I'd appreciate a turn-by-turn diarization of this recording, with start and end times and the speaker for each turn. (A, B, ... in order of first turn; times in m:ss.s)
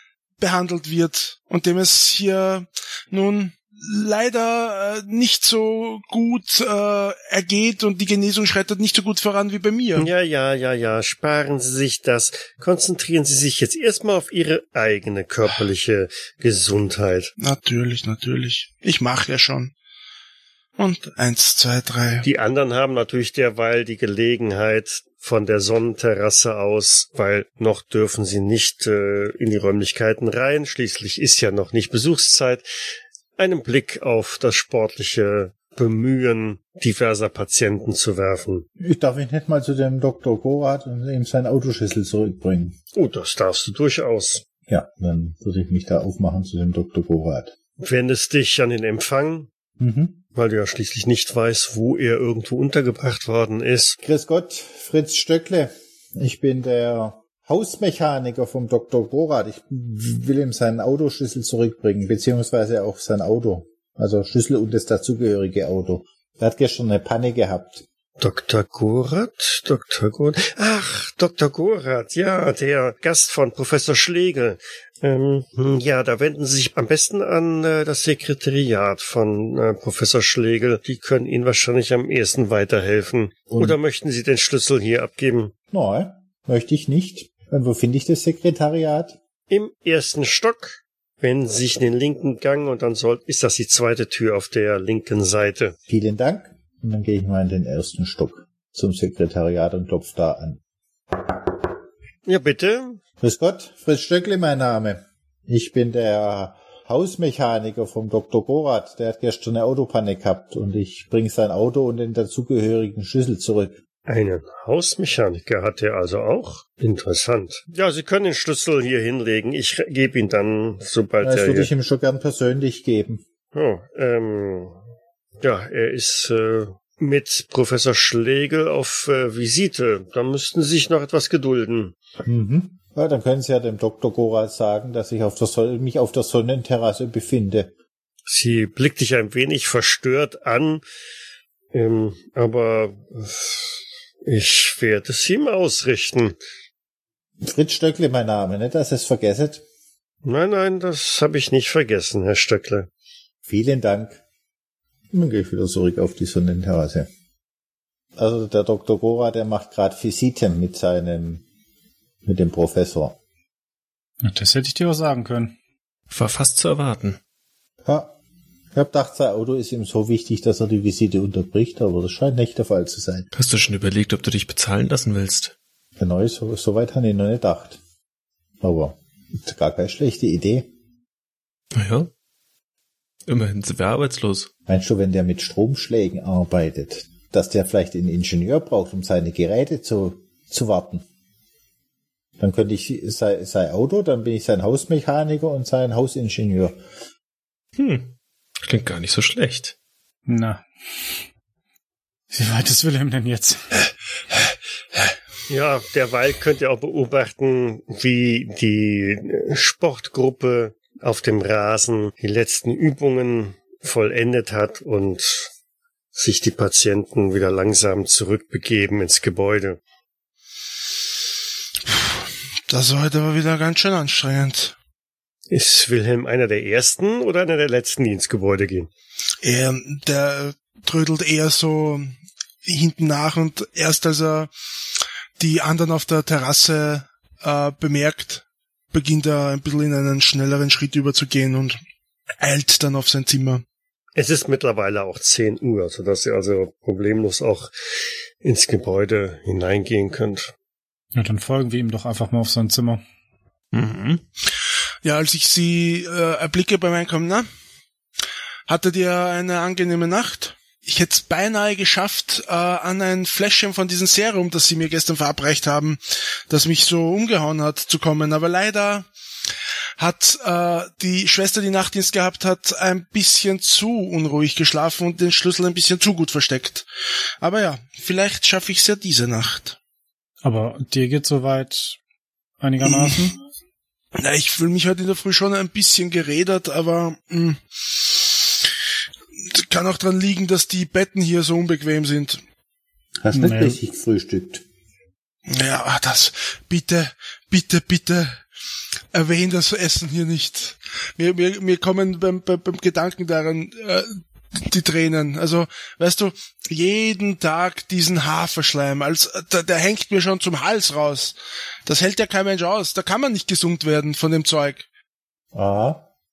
0:00.4-0:10.1 A
0:10.0-0:17.3 B
0:17.4-0:19.7 A
0:20.8-0:22.2 A
0:22.2-0:32.7 B
0:33.4-0:38.6 B
0:38.8-0:42.8 C
0:42.9-0:44.4 B
0:44.7-0:47.5 C
0:47.8-0:49.5 B
0:49.8-0:50.2 C
0:50.3-0:54.0 B
0:54.0-1:07.8 C
1:08.2-1:25.5 B
1:23.5-1:23.8 C
1:25.7-1:29.2 C
1:29.5-1:35.7 B
1:35.9-1:40.6 C
1:42.2-1:43.0 B
1:43.2-1:53.7 C
1:54.1-2:01.7 B
2:01.2-2:03.2 C
2:03.5-2:04.8 B
2:05.4-2:12.0 B
2:12.2-2:17.7 C
2:18.3-2:20.8 B
2:21.7-2:23.7 B
2:24.2-2:26.4 B
2:27.4-2:29.6 C
2:30.2-2:32.9 B
2:33.5-2:34.2 C
2:35.1-2:37.1 C
2:38.2-2:41.4 C
2:42.2-2:43.2 C
2:44.2-2:45.6 D
2:46.1-2:47.2 E
2:47.8-2:48.1 C
2:48.7-2:53.3 C
2:53.3-2:55.6 E
2:56.0-2:57.8 C
2:58.6-3:00.7 C
3:01.7-3:02.1 E
3:03.2-3:04.5 E
3:04.6-3:11.0 C
3:12.4-3:16.8 C
3:17.8-3:19.7 E
3:20.3-3:20.6 D
3:22.3-3:23.7 D
3:25.5-3:35.5 B
3:36.2-3:39.8 B
3:41.9-3:44.7 A
3:45.5-3:48.9 B
3:49.4-3:54.5 A
3:55.4-4:01.8 A
4:02.4-4:03.6 A
4:04.2-4:07.7 B
4:08.4-4:10.5 B
4:11.1-4:13.0 D
4:13.7-4:14.2 E
4:15.0-4:17.5 A
4:18.7-4:29.1 A
4:30.0-4:36.9 A
4:37.4-4:39.8 A
4:40.4-4:42.0 D
4:42.6-4:43.4 D
4:42.8-4:43.1 A
4:44.2-4:48.3 A
4:49.4-4:52.4 A
4:53.2-4:54.6 C
4:53.3-4:53.8 D
4:55.5-4:58.4 A
4:59.1-5:14.8 A
5:15.5-5:16.0 C